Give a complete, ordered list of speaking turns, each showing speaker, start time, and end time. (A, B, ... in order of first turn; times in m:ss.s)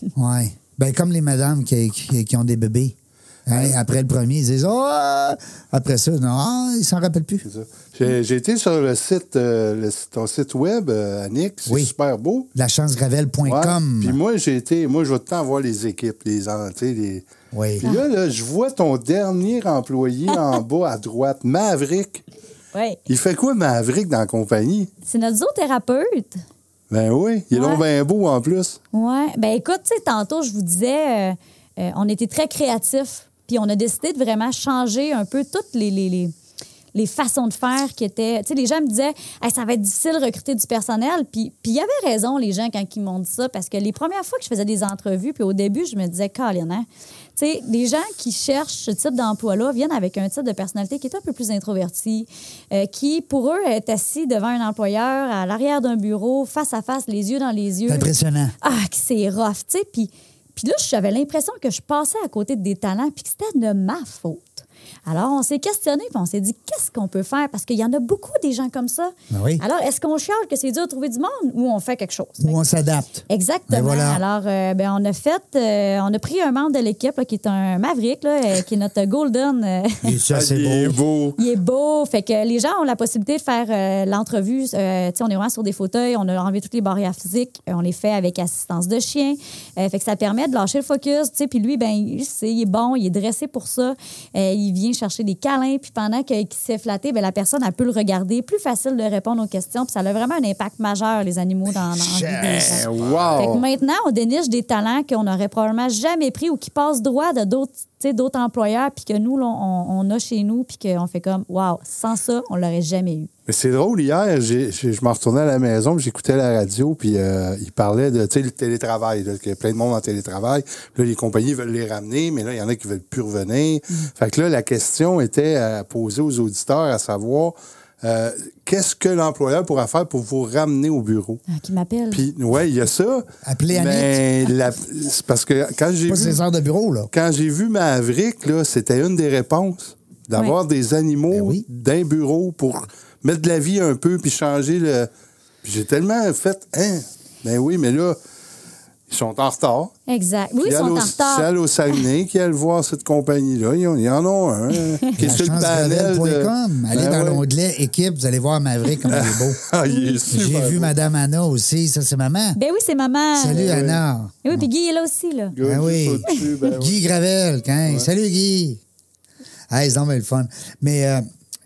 0:00.2-0:03.0 A
0:03.5-0:07.4 A
0:03.5-0:03.8 B
0:07.4-0:12.5 B
0:11.7-0:11.9 A
0:12.5-0:14.2 A
0:13.4-0:17.2 B
0:17.5-0:17.9 A
0:17.8-0:22.2 B
0:22.7-0:23.0 C
0:23.1-0:24.9 B
0:25.1-0:26.4 C
0:26.9-0:28.8 B
0:27.5-0:27.8 C
0:28.9-0:36.3 C
0:36.9-0:58.1 C
0:57.9-0:58.5 A
0:58.6-1:12.6 C
1:09.3-1:09.6 A
1:12.4-1:14.2 A
1:13.3-1:20.2 C
1:20.0-1:21.0 A
1:20.3-1:21.4 B
1:21.4-1:53.3 C
1:41.7-1:43.6 A
1:42.4-1:43.6 B
1:53.5-2:11.4 B
2:11.5-2:12.3 C
2:12.1-2:16.4 B
2:13.4-2:14.2 A
2:16.1-2:17.1 A
2:17.1-2:25.1 B
2:21.3-2:21.6 A
2:25.6-2:28.2 B
2:29.1-2:29.9 B
2:30.1-2:31.5 C
2:30.6-2:37.4 B
2:34.7-2:35.2 C
2:35.2-2:39.6 A
2:39.1-2:40.9 B
2:39.9-2:40.2 C
2:40.3-2:42.6 A
2:42.6-2:43.7 C
2:43.4-2:44.7 A
2:43.5-2:44.0 B
2:44.4-2:45.6 C
2:45.5-2:47.0 B
2:45.6-2:48.8 A
2:49.7-2:51.3 A